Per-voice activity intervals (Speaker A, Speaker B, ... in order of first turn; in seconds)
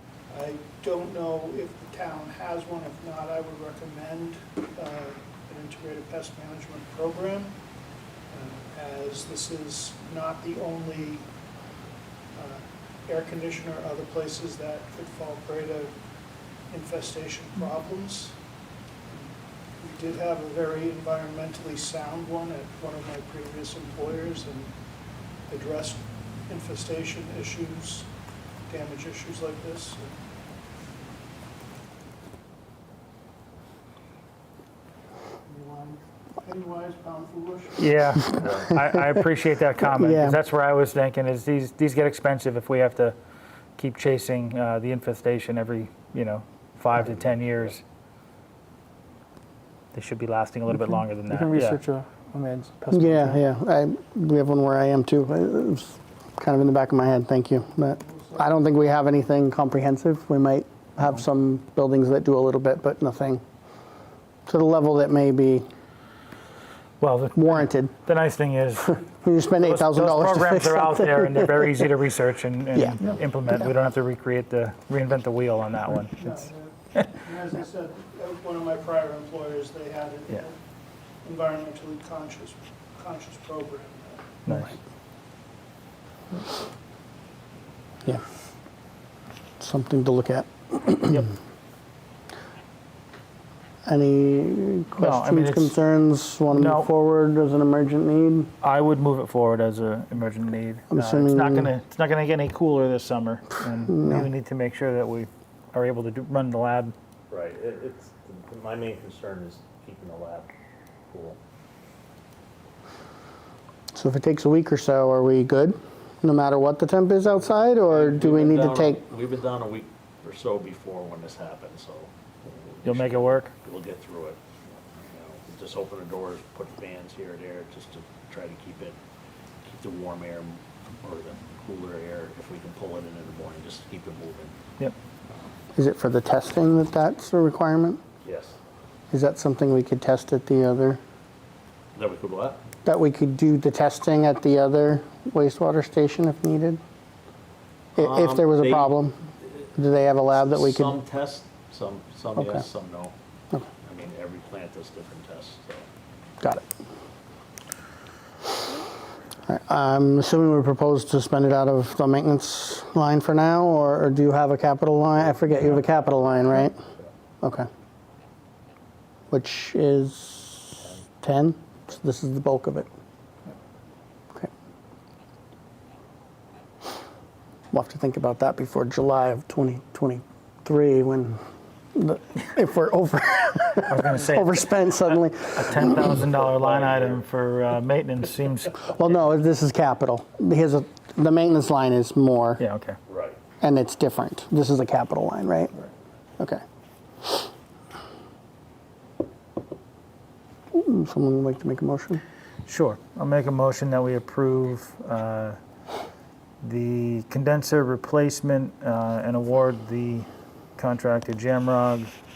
Speaker A: 0.3-7.5, 8.3-11.2, 12.3-15.9, 16.7-18.4, 19.1-24.8, 25.4-28.1, 28.7-30.2, 35.5-38.0, 76.2-80.6, 81.2-84.6
Speaker B: 37.8-43.1, 43.8-47.8, 49.9-51.8, 67.0-69.0, 69.6-76.3, 84.5-84.7, 95.0-95.8, 96.5-96.9, 98.6-106.9, 122.8-123.5, 183.8-188.8, 192.6-193.0, 202.7-205.6, 206.6-210.3, 210.8-212.1
Speaker C: 38.4-38.7, 107.3-110.5, 111.1-111.4, 117.9-128.9, 129.6-134.6, 138.2-138.6, 141.9-142.6, 147.9-149.7, 150.3-153.1, 153.8-155.9, 186.5-187.2, 193.1-193.4
Speaker D: 39.9-40.4, 52.9-63.4, 64.5-65.7, 67.3-67.9, 68.9-71.9, 72.7-73.0, 89.6-91.2, 93.8-98.5, 100.9-101.7, 104.0-104.2, 113.9-119.0, 135.8-138.0, 139.1-141.0, 142.8-146.8, 147.9-149.2, 149.7-151.0, 152.4-152.6, 156.4-156.7, 159.5-166.8, 167.4-167.7, 169.3-172.9, 177.7-181.4, 181.9-186.2, 188.9-192.6, 193.6-195.8, 200.7-202.2
Speaker E: 51.3-53.4